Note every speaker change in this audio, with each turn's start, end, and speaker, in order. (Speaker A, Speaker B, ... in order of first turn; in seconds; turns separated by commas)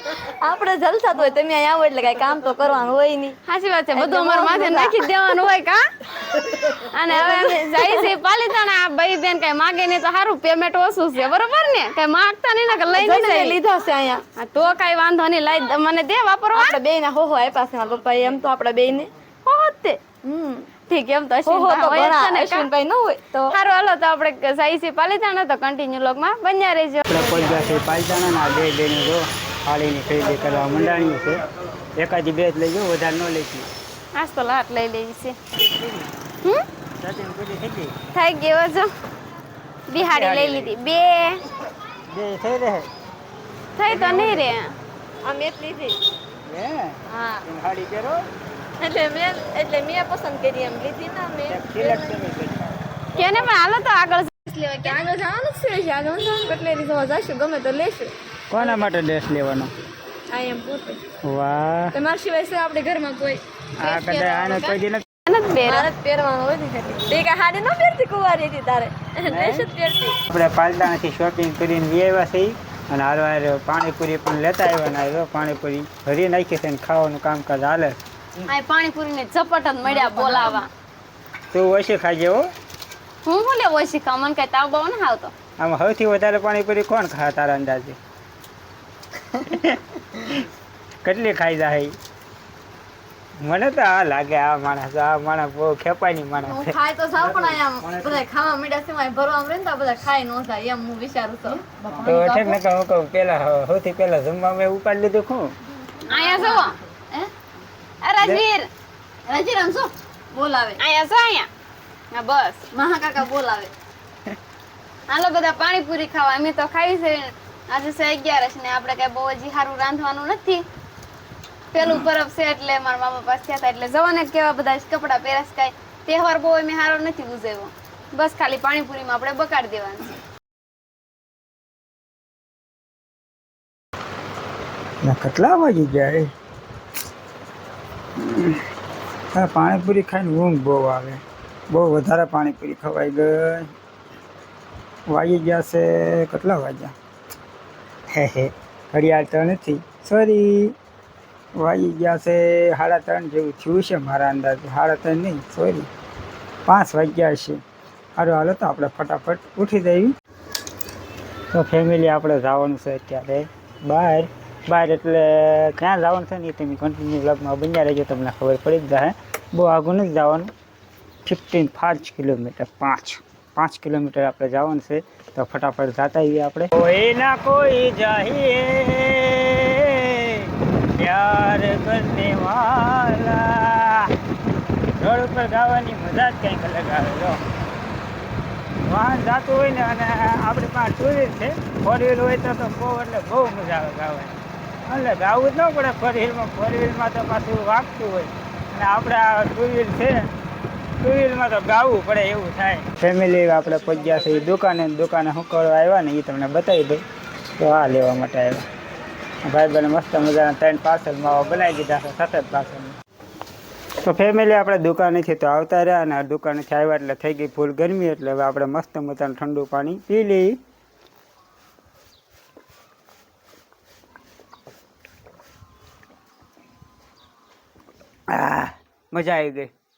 Speaker A: 0.2-3.4, Speaker B: 3.5-5.8, Speaker A: 3.9-5.1, Speaker A: 6.4-8.1, Speaker B: 6.8-13.6, Speaker A: 12.9-14.2, Speaker B: 14.3-16.8, Speaker A: 16.5-19.1, Speaker B: 19.4-20.0, Speaker A: 20.2-20.7, Speaker B: 20.9-22.7, Speaker A: 21.4-23.5, Speaker B: 23.5-27.1, Speaker C: 27.1-31.4, Speaker C: 32.0-33.7, Speaker B: 34.1-35.4, Speaker C: 35.6-36.1, Speaker C: 37.0-37.9, Speaker B: 38.1-38.9, Speaker B: 39.9-41.4, Speaker C: 39.9-40.7, Speaker C: 42.1-42.9, Speaker B: 43.8-44.7, Speaker A: 43.9-44.3, Speaker C: 43.9-44.4, Speaker A: 45.2-46.0, Speaker C: 46.5-48.2, Speaker A: 47.1-47.4, Speaker A: 48.8-52.2, Speaker C: 51.5-52.8, Speaker B: 53.1-55.0, Speaker A: 53.2-53.5, Speaker A: 54.8-58.8, Speaker C: 58.5-59.7, Speaker A: 60.3-61.0, Speaker C: 61.2-61.9, Speaker A: 61.9-64.7, Speaker C: 63.8-65.0, Speaker B: 65.3-65.9, Speaker A: 65.6-70.2, Speaker C: 69.2-69.7, Speaker C: 70.3-77.9, Speaker B: 78.5-80.7, Speaker A: 79.8-80.6, Speaker C: 81.5-82.4, Speaker B: 83.2-85.3, Speaker C: 85.6-88.0, Speaker C: 89.3-90.5, Speaker C: 91.0-92.0, Speaker C: 93.4-98.2, Speaker A: 96.4-102.4, Speaker C: 102.0-105.5, Speaker B: 106.1-106.8, Speaker A: 106.2-106.6, Speaker B: 108.0-108.7, Speaker B: 109.3-109.8, Speaker A: 110.3-110.7, Speaker B: 110.8-111.5, Speaker B: 112.1-113.7, Speaker B: 115.1-120.6, Speaker B: 121.7-130.1, Speaker C: 121.8-122.0, Speaker C: 135.0-136.3, Speaker C: 138.2-138.6, Speaker C: 139.3-143.7, Speaker C: 145.1-146.9, Speaker C: 148.1-150.7, Speaker C: 151.6-155.9, Speaker C: 156.7-157.6, Speaker C: 158.2-160.1, Speaker C: 161.5-170.5, Speaker C: 171.2-184.1, Speaker C: 185.0-187.4, Speaker C: 188.8-200.2, Speaker C: 201.0-207.0, Speaker C: 207.6-208.7, Speaker C: 209.4-213.0, Speaker C: 214.0-220.6, Speaker C: 228.3-229.7